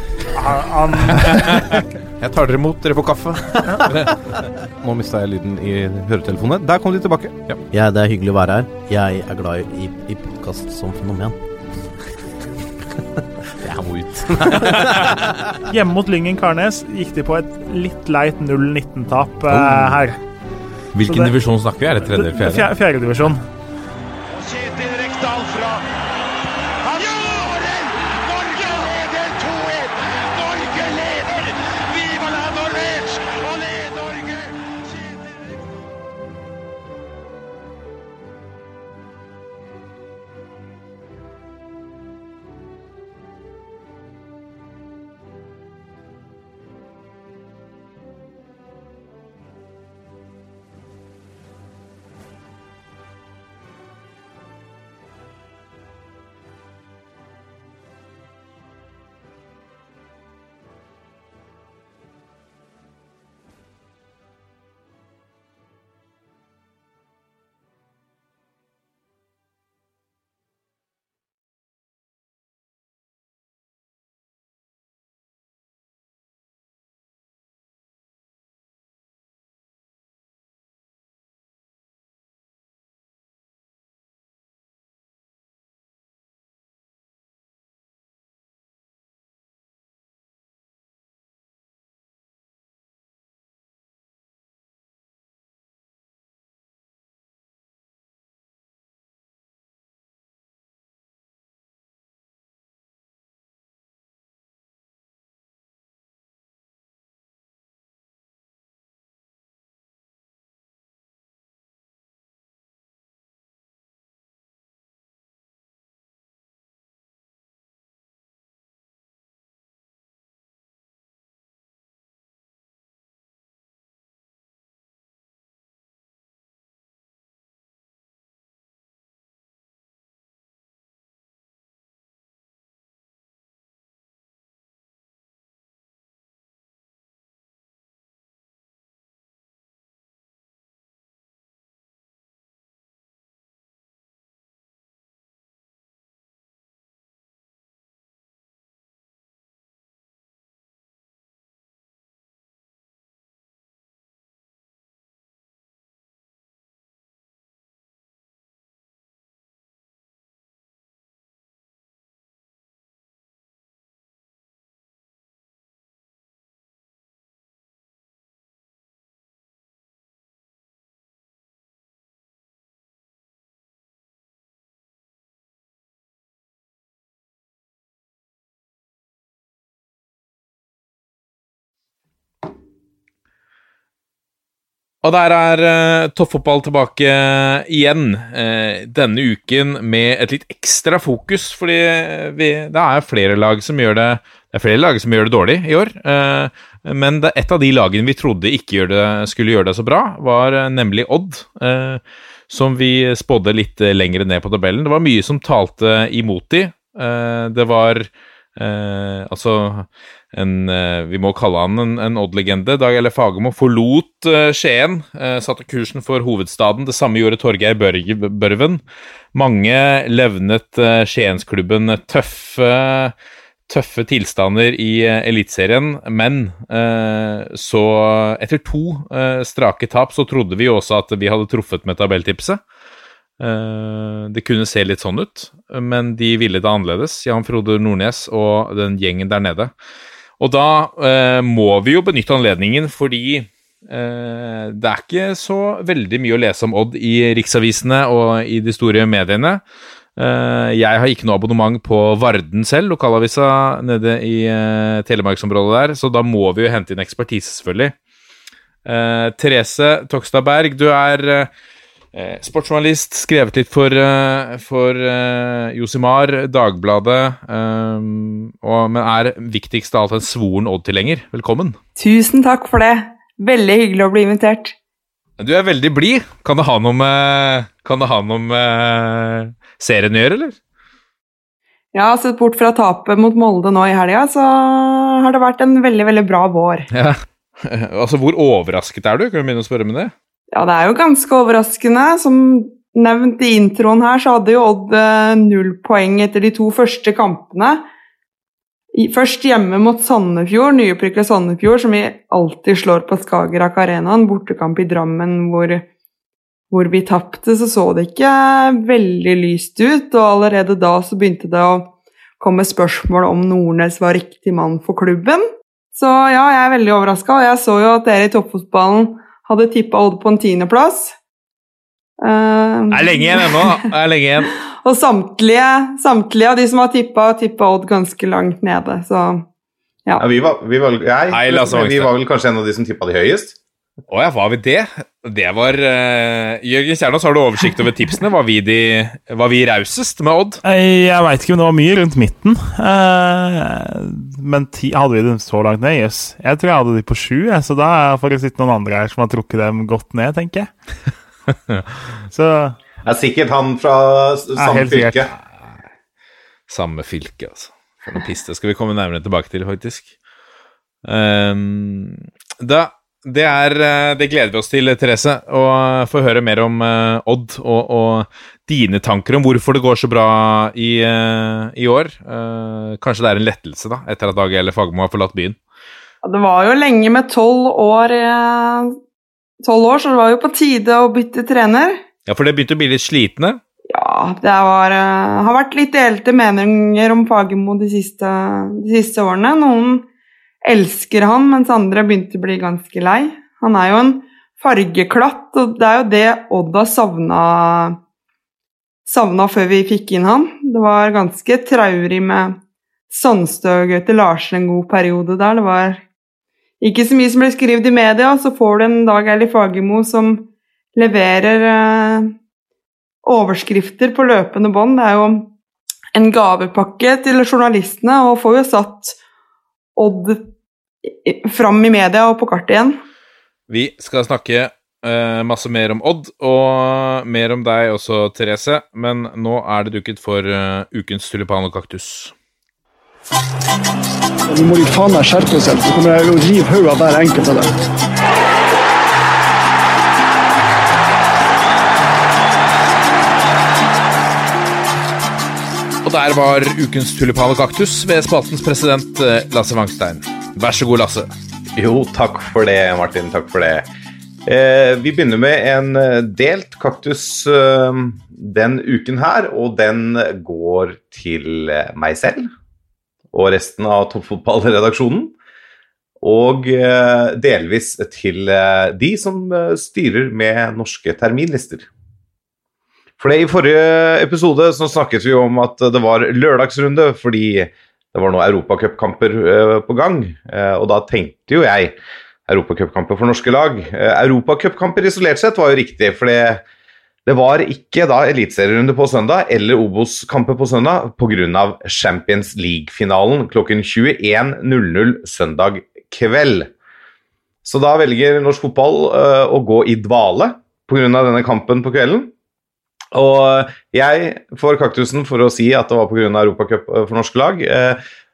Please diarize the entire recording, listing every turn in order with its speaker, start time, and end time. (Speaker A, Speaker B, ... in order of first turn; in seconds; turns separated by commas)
Speaker A: 0.3-1.5, Speaker B: 1.1-4.3, Speaker C: 4.8-7.3, Speaker D: 7.7-11.4, Speaker D: 13.6-15.2, Speaker A: 15.7-20.2, Speaker B: 19.5-20.0, Speaker B: 20.9-22.7, Speaker A: 21.1-21.3, Speaker A: 22.0-23.4, Speaker B: 185.0-218.8, Speaker B: 219.3-223.1, Speaker B: 223.7-232.6, Speaker B: 233.4-239.7, Speaker B: 240.4-249.6, Speaker B: 250.2-257.9, Speaker B: 258.9-261.5, Speaker B: 262.1-271.8, Speaker E: 272.0-274.8, Speaker B: 275.4-280.6, Speaker E: 281.9-286.9, Speaker B: 286.9-290.1, Speaker E: 290.5-297.8, Speaker E: 298.9-305.9, Speaker E: 306.7-321.2, Speaker E: 322.2-323.9, Speaker B: 322.9-324.5, Speaker E: 324.7-329.4, Speaker C: 330.2-333.6, Speaker B: 331.3-332.1, Speaker B: 334.1-340.6, Speaker A: 340.6-350.7, Speaker A: 352.3-352.8, Speaker C: 353.1-355.3, Speaker A: 354.6-355.2, Speaker B: 356.7-360.1, Speaker B: 361.1-375.6, Speaker E: 376.2-378.9, Speaker E: 379.6-382.0, Speaker B: 382.3-383.6, Speaker E: 383.9-390.1, Speaker E: 390.6-398.0, Speaker E: 399.1-402.6, Speaker E: 403.1-406.0, Speaker E: 406.8-412.3, Speaker E: 413.2-415.5, Speaker E: 416.1-419.2, Speaker E: 420.0-420.5, Speaker E: 421.1-423.0, Speaker B: 423.7-432.3, Speaker F: 434.5-437.7, Speaker B: 446.0-451.3, Speaker C: 451.8-453.9, Speaker C: 454.4-462.5, Speaker C: 463.3-465.3, Speaker C: 466.2-471.9, Speaker C: 473.2-481.9, Speaker C: 482.5-486.6, Speaker C: 487.3-496.7, Speaker C: 497.6-502.3, Speaker C: 503.1-508.0